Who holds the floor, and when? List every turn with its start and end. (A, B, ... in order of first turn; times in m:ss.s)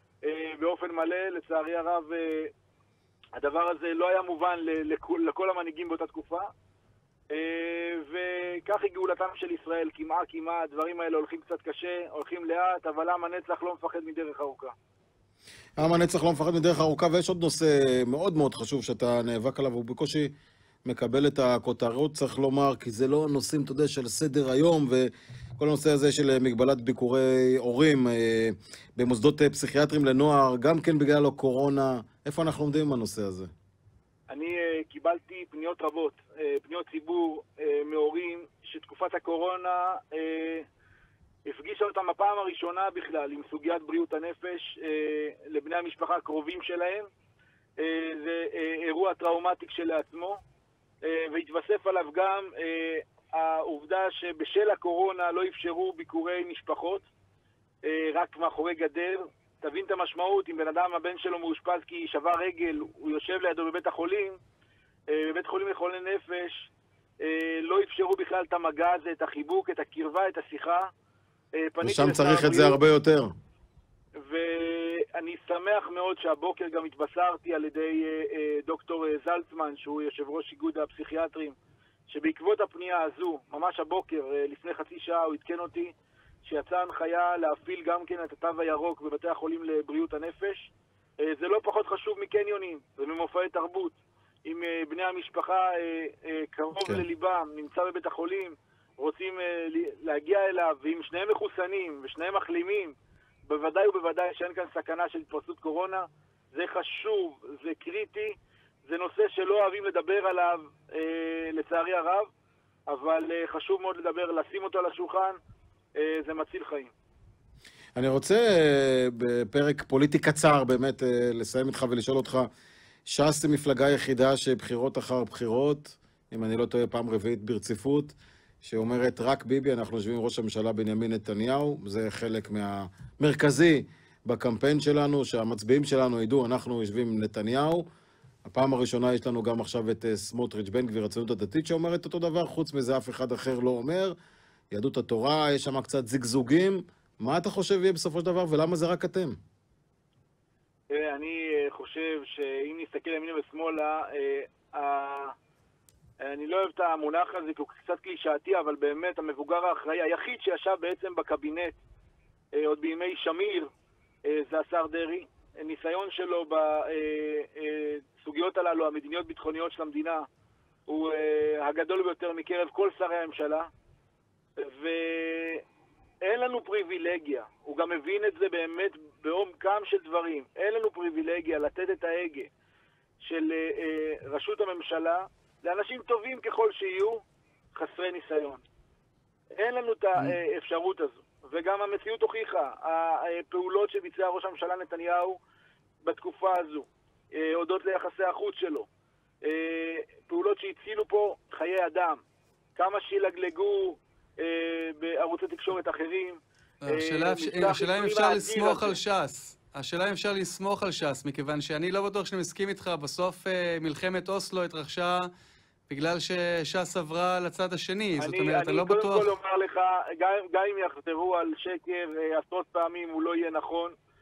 0:00.2-0:02.5 A
0:03.4-0:06.5 A
0:07.3-0:14.7 A
0:15.8-0:20.3 B
0:20.8-0:33.5 B
0:34.3-0:40.6 A
0:41.4-0:47.1 A
0:47.8-0:50.4 A
0:51.0-0:57.0 A
0:57.8-1:04.4 A
1:05.1-1:06.7 A
1:07.2-1:10.9 A
1:11.6-1:12.8 A
1:11.8-1:13.3 B
1:14.2-1:21.5 A
1:22.1-1:25.9 A
1:26.4-1:30.7 A
1:31.2-1:52.3 A
1:52.9-1:55.4 A
1:56.0-1:56.9 A
1:58.0-2:02.5 B
2:03.1-2:17.8 B
2:18.4-2:24.1 B
2:24.7-2:29.4 B
2:30.9-2:35.3 A
2:36.2-2:41.8 A
2:42.5-2:43.7 A
2:44.2-2:50.3 A
2:50.9-2:53.7 A
2:54.6-2:55.6 A
2:56.2-3:02.5 A
3:03.2-3:07.2 A
3:07.7-3:08.6 A
3:09.5-3:15.4 A
3:16.0-3:18.8 A
3:19.4-3:22.2 A
3:22.8-3:29.0 A
3:26.8-3:35.3 C
3:35.9-3:39.4 C
3:38.2-3:44.0 A